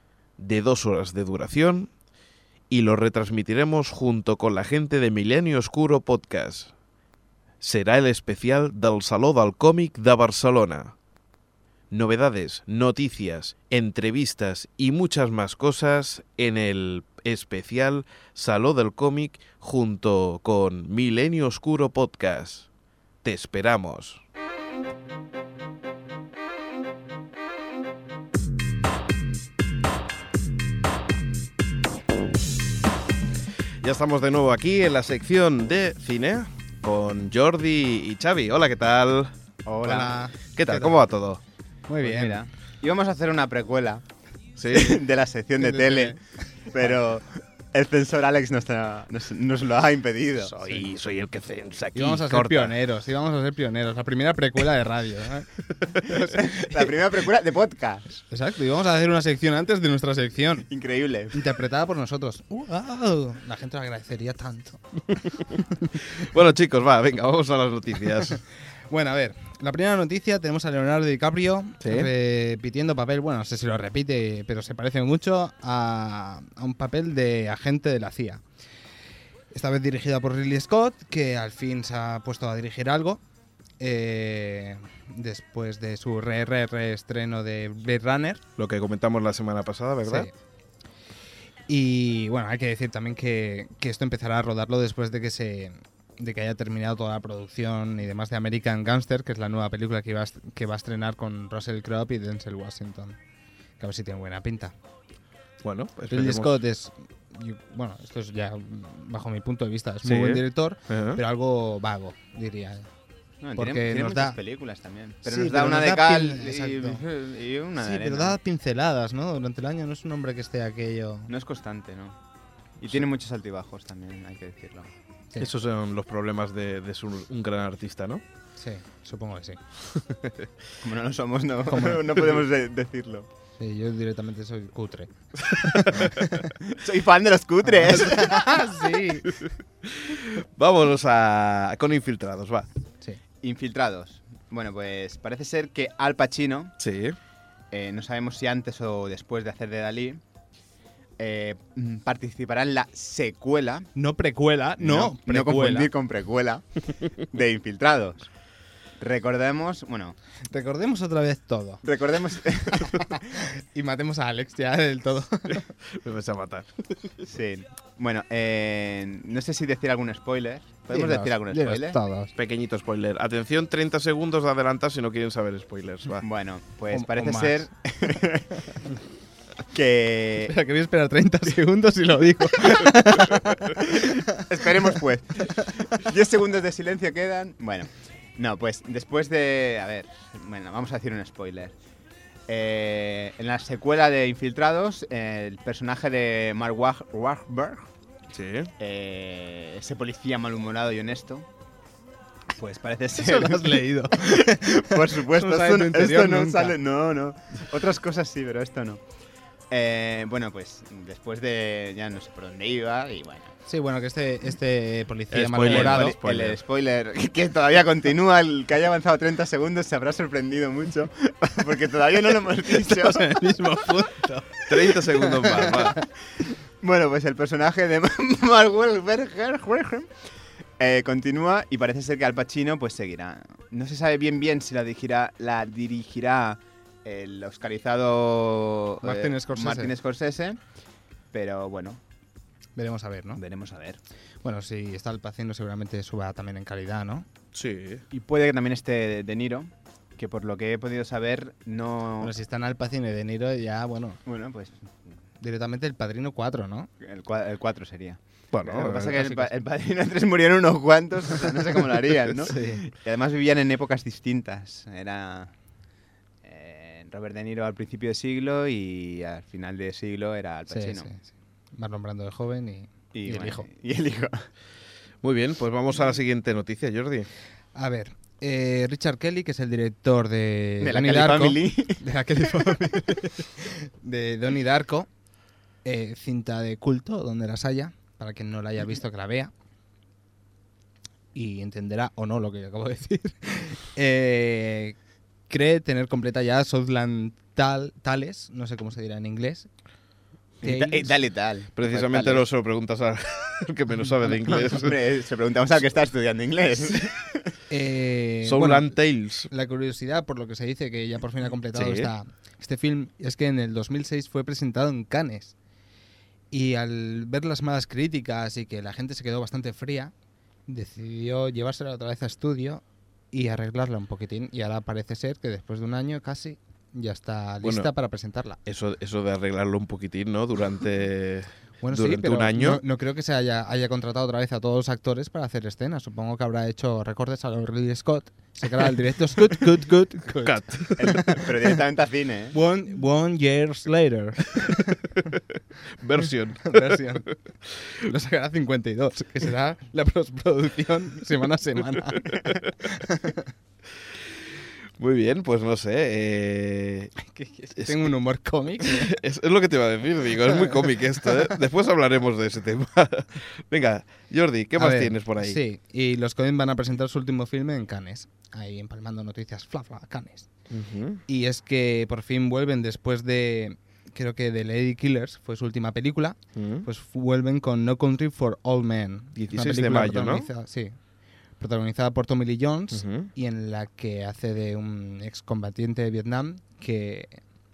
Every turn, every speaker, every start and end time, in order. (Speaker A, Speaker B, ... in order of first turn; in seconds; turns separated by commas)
Speaker A: 0.4-1.9, Speaker A: 2.7-6.7, Speaker A: 7.6-10.9, Speaker A: 11.9-22.7, Speaker A: 23.2-24.2, Speaker A: 33.8-39.3, Speaker B: 39.6-40.3, Speaker C: 39.9-41.0, Speaker A: 39.9-41.4, Speaker C: 41.9-42.4, Speaker B: 42.0-44.0, Speaker A: 44.6-45.0, Speaker B: 44.7-46.2, Speaker C: 45.6-46.2, Speaker B: 46.7-50.6, Speaker A: 50.5-52.7, Speaker C: 51.9-56.9, Speaker B: 56.1-58.2, Speaker C: 58.3-60.7, Speaker B: 60.7-61.4, Speaker C: 61.3-64.8, Speaker A: 66.1-68.4, Speaker C: 68.9-78.4, Speaker A: 71.8-72.1, Speaker C: 79.5-83.2, Speaker C: 83.8-88.4, Speaker A: 88.6-90.3, Speaker C: 90.0-90.3, Speaker C: 91.7-103.2, Speaker C: 103.8-104.7, Speaker A: 105.6-106.6, Speaker C: 106.1-112.9, Speaker A: 110.0-111.2, Speaker B: 113.4-118.4, Speaker C: 113.5-114.4, Speaker C: 115.2-117.0, Speaker C: 117.8-121.3, Speaker B: 121.3-122.2, Speaker B: 122.8-124.9, Speaker A: 125.4-128.2, Speaker C: 128.6-129.6, Speaker A: 129.9-130.5, Speaker B: 130.8-133.3, Speaker C: 131.7-132.2, Speaker C: 133.6-136.5, Speaker A: 135.7-136.3, Speaker B: 136.6-138.6, Speaker C: 137.7-139.4, Speaker A: 139.8-142.7, Speaker B: 143.4-146.7, Speaker A: 146.8-147.2, Speaker B: 147.7-150.2, Speaker B: 151.2-153.9, Speaker C: 153.9-155.9, Speaker B: 154.8-158.3, Speaker B: 159.0-160.2, Speaker C: 160.5-161.8, Speaker B: 161.8-163.2, Speaker C: 162.7-165.7, Speaker A: 165.8-167.1, Speaker B: 167.3-172.0, Speaker C: 170.9-172.3, Speaker A: 172.3-176.2, Speaker B: 176.2-178.7, Speaker C: 176.9-177.7, Speaker B: 179.7-180.6, Speaker C: 180.4-184.5, Speaker B: 183.8-191.7, Speaker B: 192.5-197.9, Speaker A: 198.3-198.7, Speaker B: 198.8-201.4, Speaker B: 202.6-209.0, Speaker C: 203.2-206.8, Speaker B: 209.7-213.5, Speaker C: 213.7-216.2, Speaker A: 215.3-216.6, Speaker B: 215.6-223.3, Speaker C: 222.7-225.9, Speaker A: 224.7-226.0, Speaker B: 226.8-230.1, Speaker B: 230.8-240.6, Speaker C: 239.0-239.9, Speaker B: 241.3-242.0, Speaker C: 242.8-243.4, Speaker B: 243.3-244.0, Speaker C: 244.4-247.3, Speaker A: 247.5-248.0, Speaker B: 248.1-252.3, Speaker C: 252.2-254.2, Speaker B: 254.2-254.9, Speaker C: 255.4-256.9, Speaker B: 257.0-265.5, Speaker A: 258.5-259.1, Speaker C: 259.0-259.5, Speaker C: 262.4-262.8, Speaker B: 266.4-271.1, Speaker C: 270.7-273.7, Speaker B: 273.1-274.5, Speaker A: 275.2-277.3, Speaker C: 277.7-285.1, Speaker B: 280.8-283.0, Speaker C: 285.8-289.5, Speaker C: 291.3-294.9, Speaker C: 295.5-299.7, Speaker B: 300.6-302.4, Speaker C: 300.6-301.1, Speaker A: 301.8-304.9, Speaker C: 304.3-304.9, Speaker B: 304.5-307.5, Speaker C: 307.7-308.9, Speaker A: 308.4-309.5, Speaker C: 309.5-315.5, Speaker A: 311.7-312.1, Speaker C: 316.5-320.1, Speaker C: 320.7-328.6, Speaker A: 327.6-327.9, Speaker A: 328.6-332.8, Speaker C: 331.8-341.5, Speaker A: 340.4-341.1, Speaker B: 341.0-342.6, Speaker C: 342.5-345.1, Speaker A: 346.0-347.1, Speaker C: 346.2-347.3, Speaker C: 348.0-353.5, Speaker A: 355.0-357.1, Speaker C: 357.2-359.1, Speaker A: 357.7-358.1, Speaker A: 358.9-365.6, Speaker C: 360.5-361.5, Speaker C: 364.8-370.5, Speaker A: 370.7-371.2, Speaker C: 371.3-380.9, Speaker A: 376.5-376.9, Speaker A: 379.4-380.5, Speaker C: 381.6-387.4, Speaker A: 382.9-383.3